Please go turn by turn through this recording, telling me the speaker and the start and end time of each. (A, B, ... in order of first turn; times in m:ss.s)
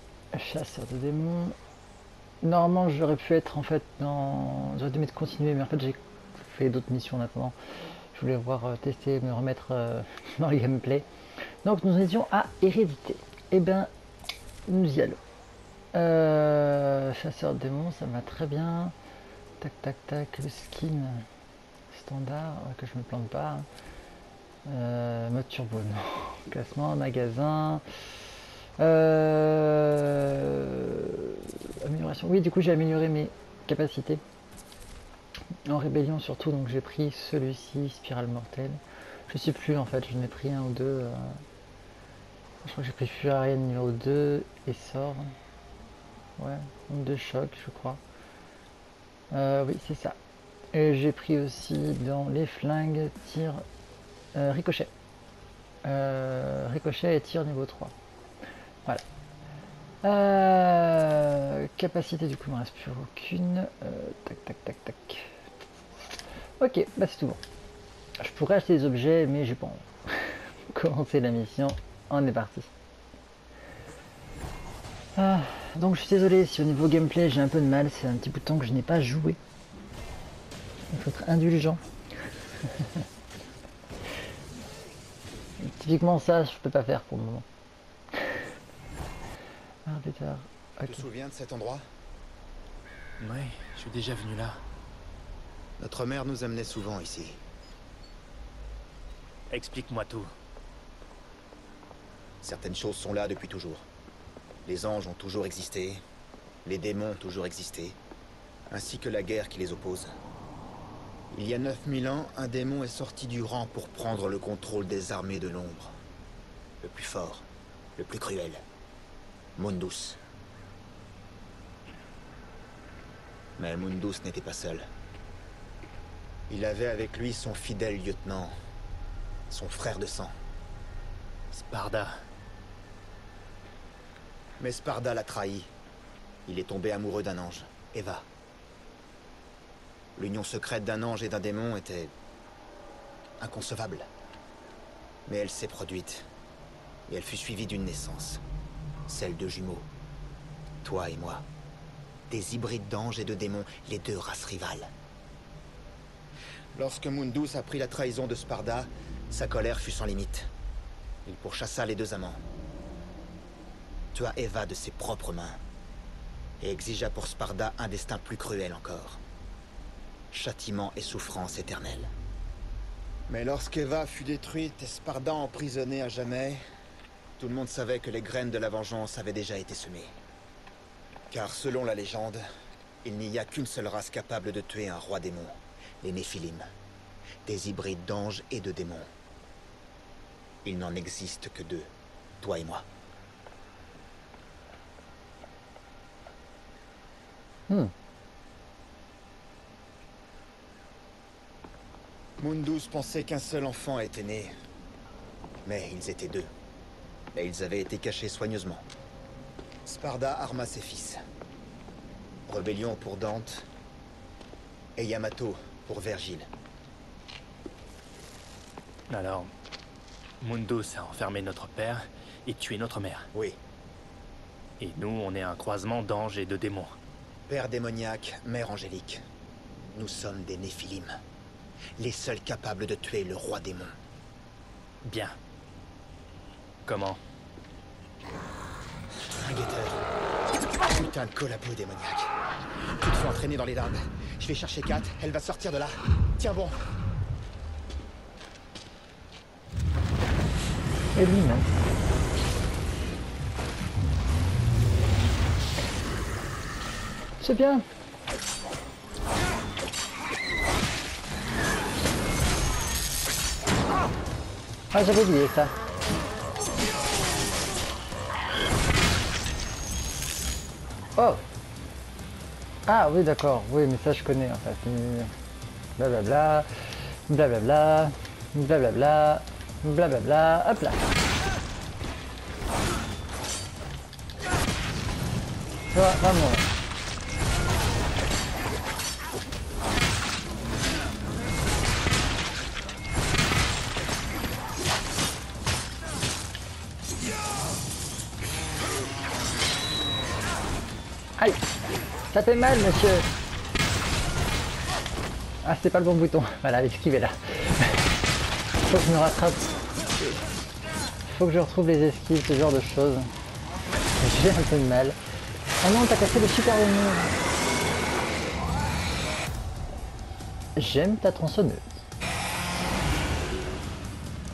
0:00.3-0:01.6 A
0:02.4-0:07.6 A
0:08.2-0:11.1 A
0:11.6-0:13.9 A
0:14.7-0:15.2 A
0:15.9-0:18.9 A
0:19.6-0:21.3 A
0:21.9-0:23.7 A
0:24.7-0:27.8 A
0:28.8-0:34.2 A
0:35.7-0:41.4 A
0:42.6-0:45.3 A
0:46.4-0:48.0 A
0:49.3-0:50.2 A
0:50.7-0:53.6 A
0:54.3-0:54.9 A
0:55.8-0:57.9 A
1:00.0-1:05.3 A
1:06.6-1:07.4 A
1:08.2-1:12.7 A
1:15.2-1:19.4 A
1:20.9-1:21.8 A
1:22.6-1:23.0 A
1:25.6-1:27.5 A
1:28.2-1:28.4 A
1:29.9-1:31.0 A
1:30.8-1:31.8 B
1:33.2-1:34.6 C
1:35.8-1:37.4 B
1:39.5-1:40.3 C
1:42.4-1:43.9 B
1:44.7-1:46.0 B
1:46.6-1:48.0 B
1:48.7-1:50.1 B
1:51.3-1:56.0 B
1:56.8-1:58.6 B
1:59.6-2:00.2 B
2:03.6-2:04.9 B
2:06.5-2:08.5 B
2:09.5-2:10.3 B
2:11.5-2:12.1 C
2:14.6-2:15.7 B
2:16.5-2:18.3 B
2:20.2-2:22.1 B
2:23.4-2:24.1 B
2:25.3-2:26.3 B
2:27.1-2:28.4 B
2:29.1-2:29.9 B
2:30.8-2:31.5 B
2:32.3-2:34.9 B
2:36.8-2:40.5 B
2:41.3-2:42.4 B
2:44.1-2:45.6 B
2:46.6-2:49.2 B
2:50.3-2:52.1 B
2:53.3-2:56.6 B
2:57.4-3:00.2 B
3:01.3-3:02.4 B
3:03.0-3:06.6 B
3:07.4-3:09.1 B
3:10.6-3:12.9 B
3:22.4-3:24.5 B
3:25.6-3:26.5 B
3:27.4-3:28.9 B
3:29.8-3:31.2 B
3:32.5-3:33.7 B
3:35.0-3:36.5 B
3:39.1-3:39.5 C
3:40.4-3:43.3 C
3:43.3-3:43.6 B
3:44.8-3:46.9 C
3:47.5-3:49.2 B
3:49.9-3:51.2 B
3:52.0-3:54.0 B
3:55.0-3:55.4 C
3:56.9-3:57.2 C
3:59.2-4:00.1 B
4:00.8-4:02.3 B
4:03.0-4:06.8 B
4:11.2-4:11.8 A
4:17.4-4:17.9 A
4:24.9-4:25.8 A
4:31.2-4:31.4 A
4:32.9-4:35.3 A
4:36.0-4:41.1 A
4:45.9-4:46.7 A
5:02.3-5:03.3 A
5:05.6-5:08.1 A
5:08.8-5:09.7 A
5:11.3-5:13.3 A
5:14.2-5:15.2 A
5:15.8-5:17.4 A
5:20.8-5:21.8 A